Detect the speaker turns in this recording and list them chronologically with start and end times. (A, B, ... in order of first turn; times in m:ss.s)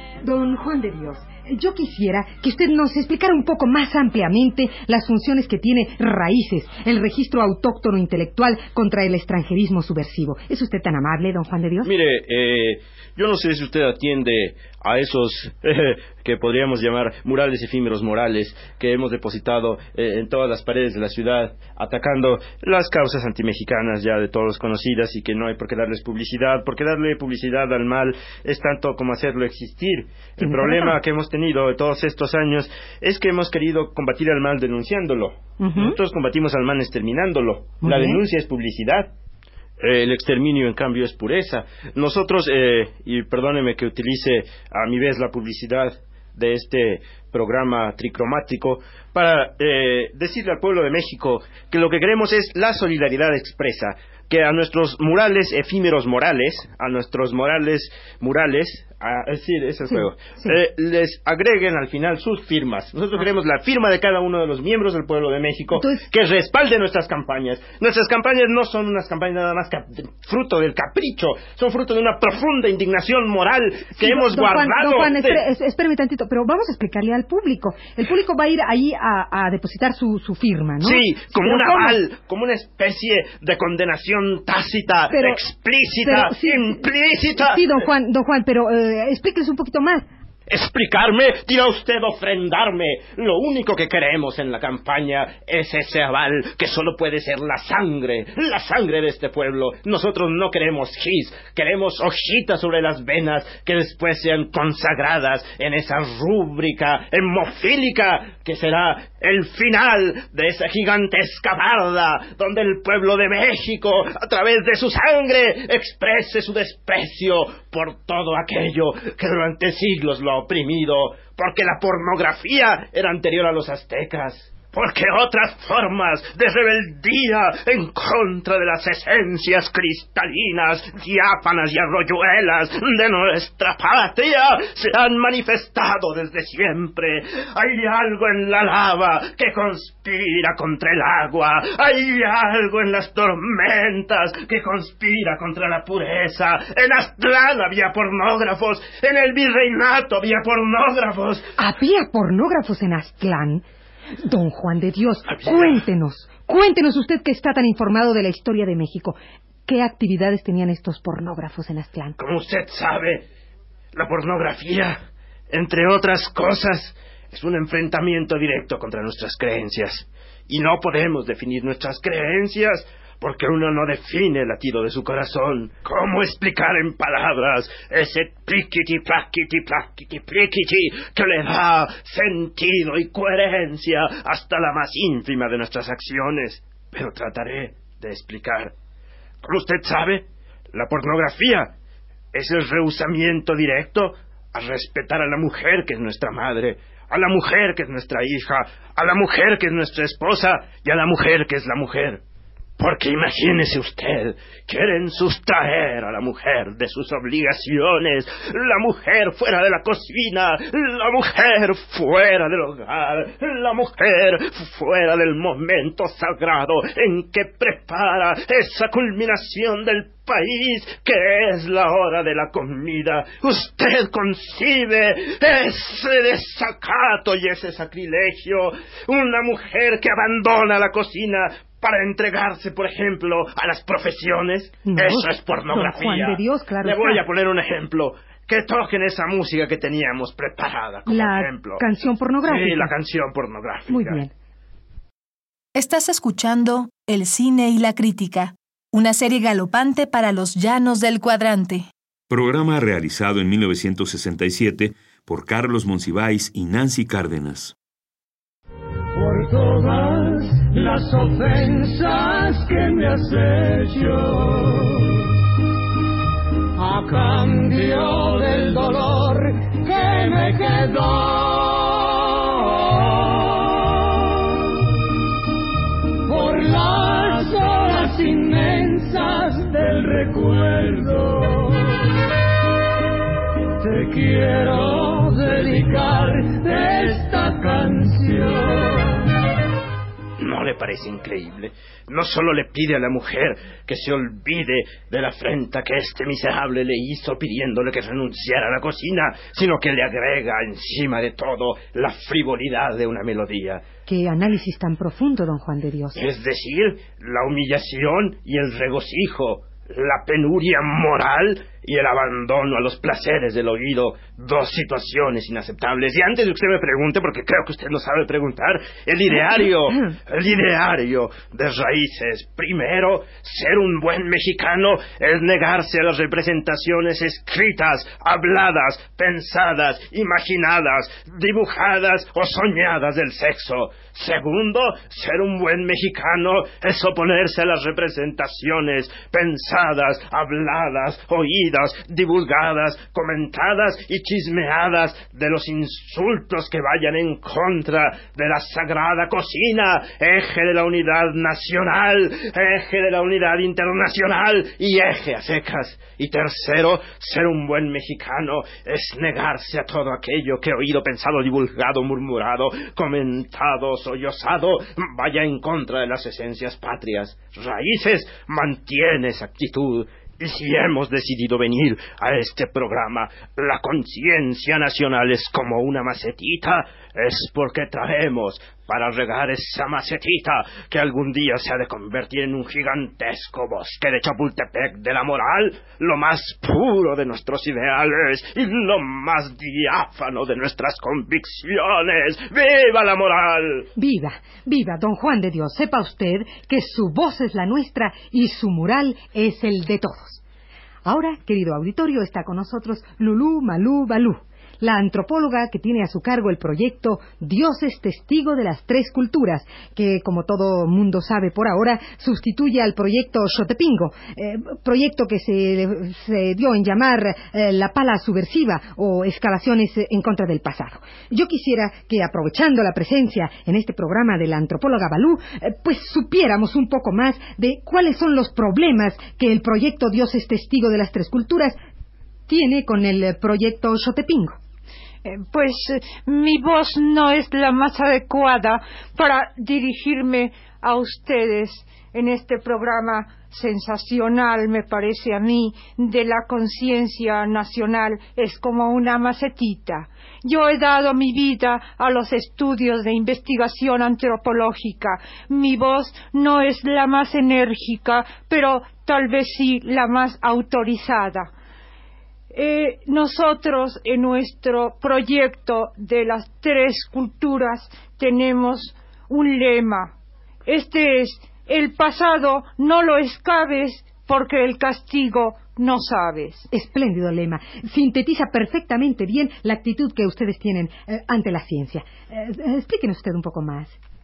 0:00.2-0:11.9 A
0:11.8-0:39.1 B
0:30.4-0:31.0 A
0:35.6-0:36.0 A
0:37.8-0:38.2 A
0:39.8-1:15.4 B
0:59.9-1:00.6 A
1:05.7-1:06.0 A
1:13.9-1:22.0 A
1:20.8-1:27.7 B
1:25.1-1:25.4 A
1:26.0-1:26.8 A
1:27.4-1:30.1 A
1:30.5-2:31.5 B
2:31.6-2:33.6 A
2:34.2-2:42.2 A
2:35.3-2:35.8 B
2:42.2-2:43.2 B
2:43.9-2:45.0 B
2:45.5-3:08.7 B
3:09.4-3:11.7 B
3:12.3-3:22.2 B
3:22.8-4:01.8 B
3:54.9-3:57.2 A
4:01.1-4:02.9 A
4:02.4-4:04.2 B
4:03.9-4:04.3 A
4:05.8-4:11.9 C
4:12.3-4:17.7 D
4:19.2-4:25.1 E
4:26.8-4:33.4 E
4:36.3-4:42.0 E
4:43.8-4:49.2 E
4:50.4-5:03.8 B
5:04.1-5:06.2 A
5:06.2-6:33.9 B
5:19.4-5:20.1 A
6:34.0-6:40.4 A
6:41.0-7:11.8 A
7:12.5-7:14.6 A
7:15.2-7:41.5 F
7:42.5-7:50.1 F
7:50.7-7:56.7 F
7:56.7-8:04.0 A